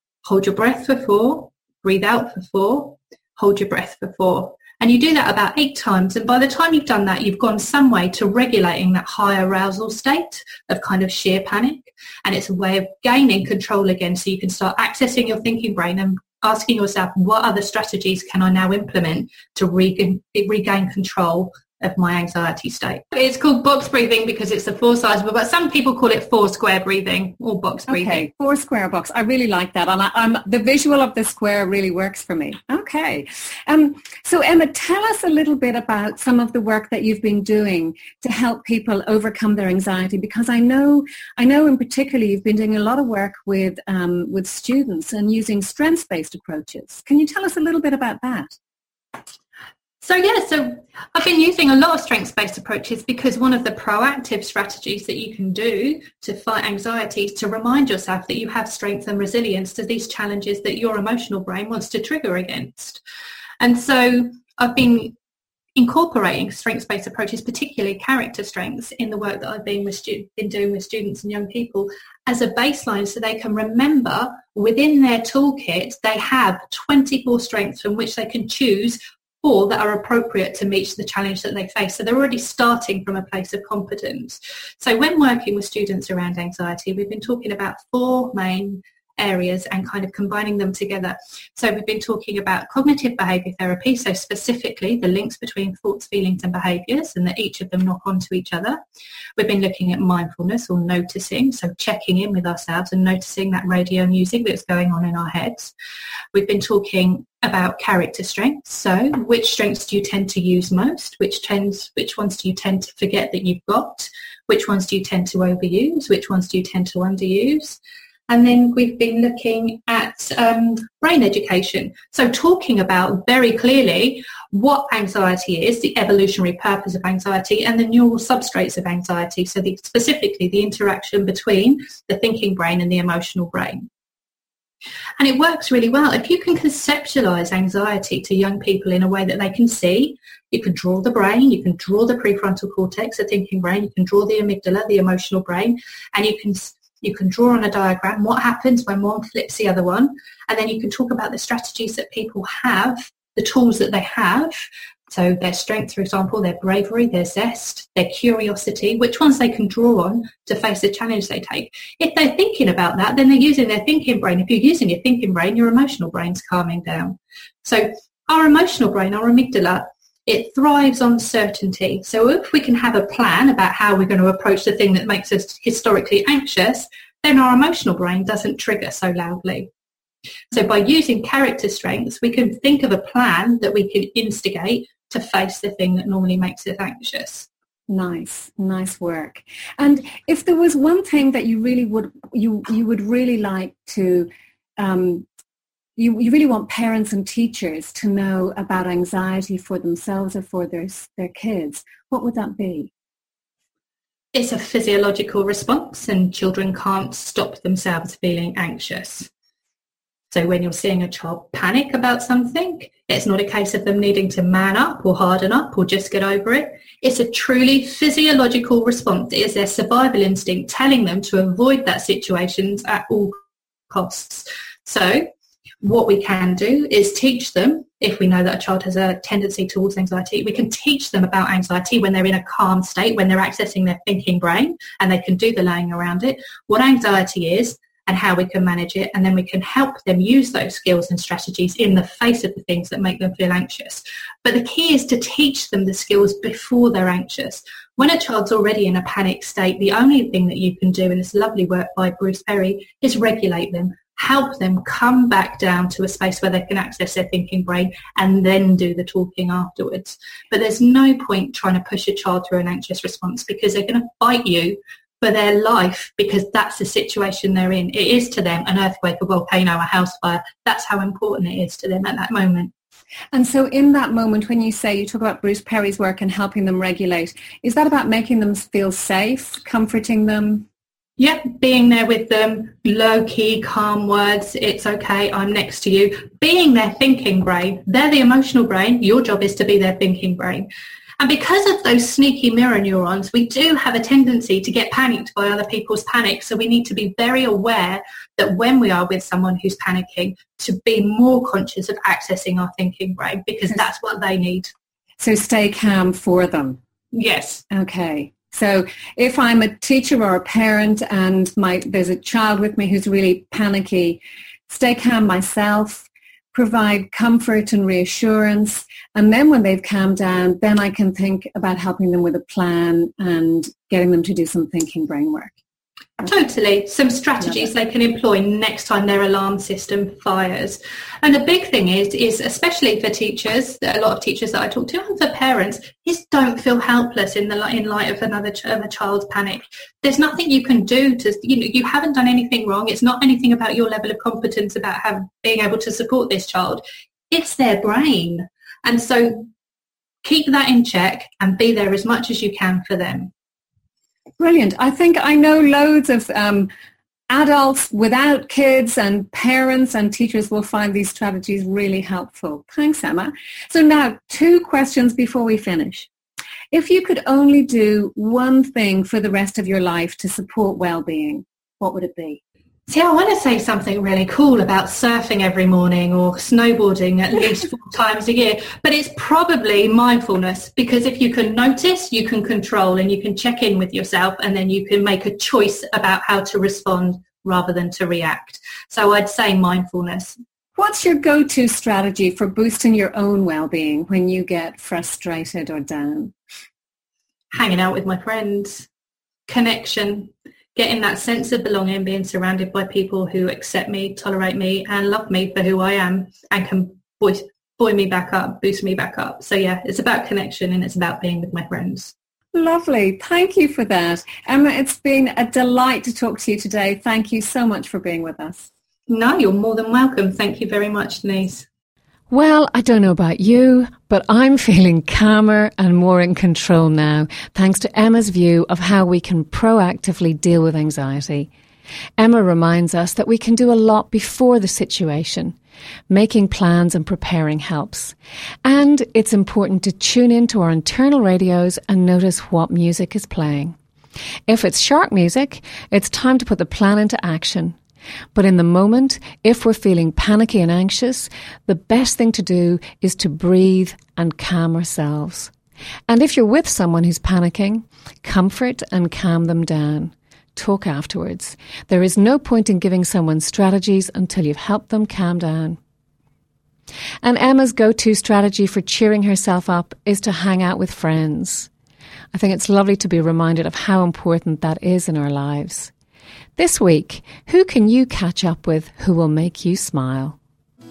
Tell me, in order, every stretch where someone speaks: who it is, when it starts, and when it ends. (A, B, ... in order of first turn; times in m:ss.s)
0:00.2-0:28.3 A
0:27.9-0:48.6 B
0:50.0-1:03.0 A
1:03.6-1:05.2 A
1:05.8-1:38.8 A
1:39.4-1:45.7 A
1:46.3-2:13.9 A
2:15.2-2:34.6 A
2:35.1-2:59.7 A
3:00.5-3:07.5 A
3:07.9-3:15.3 B
3:16.0-3:22.9 B
3:24.3-3:29.3 A
3:30.3-3:45.3 A
3:45.8-4:32.7 A
4:33.3-4:40.7 B
4:41.2-4:50.7 A
4:51.2-5:04.7 A
5:05.2-5:06.8 B
5:07.1-5:07.6 A
5:07.7-5:25.5 B
5:26.2-5:49.5 A
5:50.2-5:53.3 A
5:54.4-5:56.7 B
5:57.3-6:06.1 B
6:06.7-6:12.4 B
6:12.9-6:30.4 A
6:30.8-6:36.3 B
6:37.5-6:38.9 A
6:39.5-6:52.1 A
6:52.5-6:58.7 B
6:59.1-7:01.7 A
7:02.3-7:11.5 B
7:12.2-7:15.6 B
7:16.1-7:23.8 B
7:24.5-7:27.8 B
7:28.3-7:35.5 B
7:36.1-7:45.8 B
7:47.2-7:51.7 B
7:52.3-7:55.9 B
7:56.6-8:00.4 B